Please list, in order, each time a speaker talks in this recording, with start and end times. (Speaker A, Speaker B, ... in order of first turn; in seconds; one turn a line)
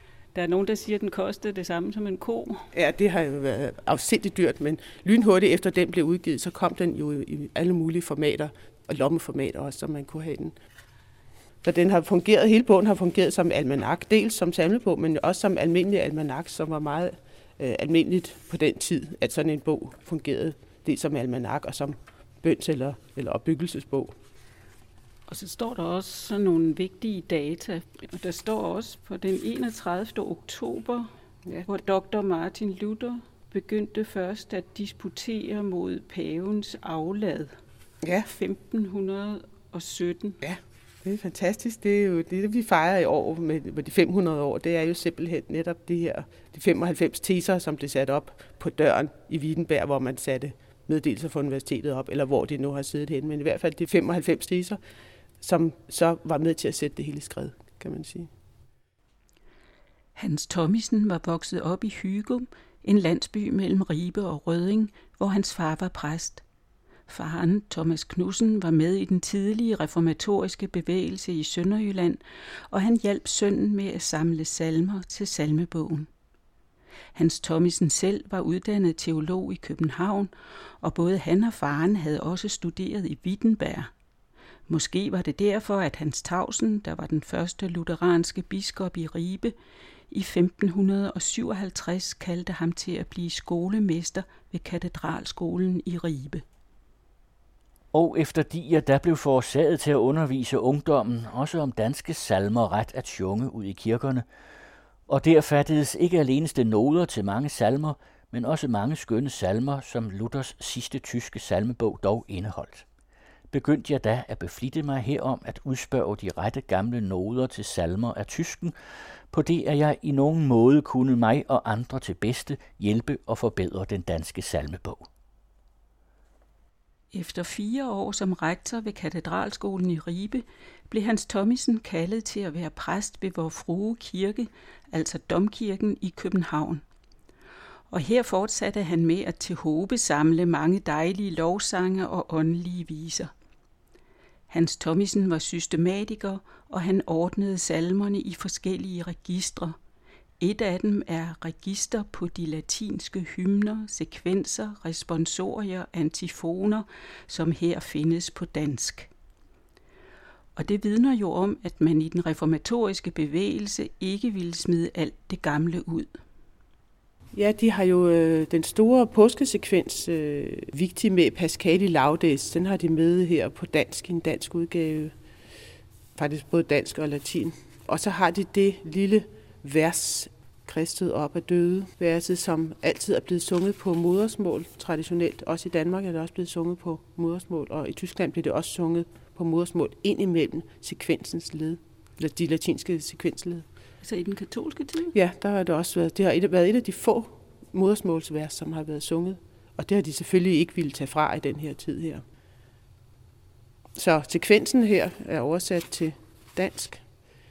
Speaker A: 0.3-2.7
Speaker B: 2.7-10.5
Speaker B: 11.6-24.1
Speaker A: 25.3-31.1
Speaker A: 31.7-37.5
Speaker B: 38.0-38.3
Speaker A: 38.3-40.4
Speaker B: 40.4-54.8
Speaker B: 55.4-58.3
Speaker A: 60.2-66.4
Speaker A: 67.1-76.1
Speaker A: 77.1-83.9
Speaker A: 84.7-89.5
Speaker A: 90.1-96.4
Speaker C: 97.9-104.2
Speaker C: 105.1-112.9
Speaker C: 113.5-118.7
Speaker C: 119.3-125.1
Speaker A: 127.1-136.8
Speaker A: 137.9-143.3
Speaker A: 144.5-149.8
Speaker A: 150.4-159.1
Speaker A: 160.6-166.1
Speaker B: 167.3-175.1
Speaker B: 176.2-193.7
Speaker A: 194.0-195.1
Speaker B: 195.1-202.2
Speaker B: 203.9-207.0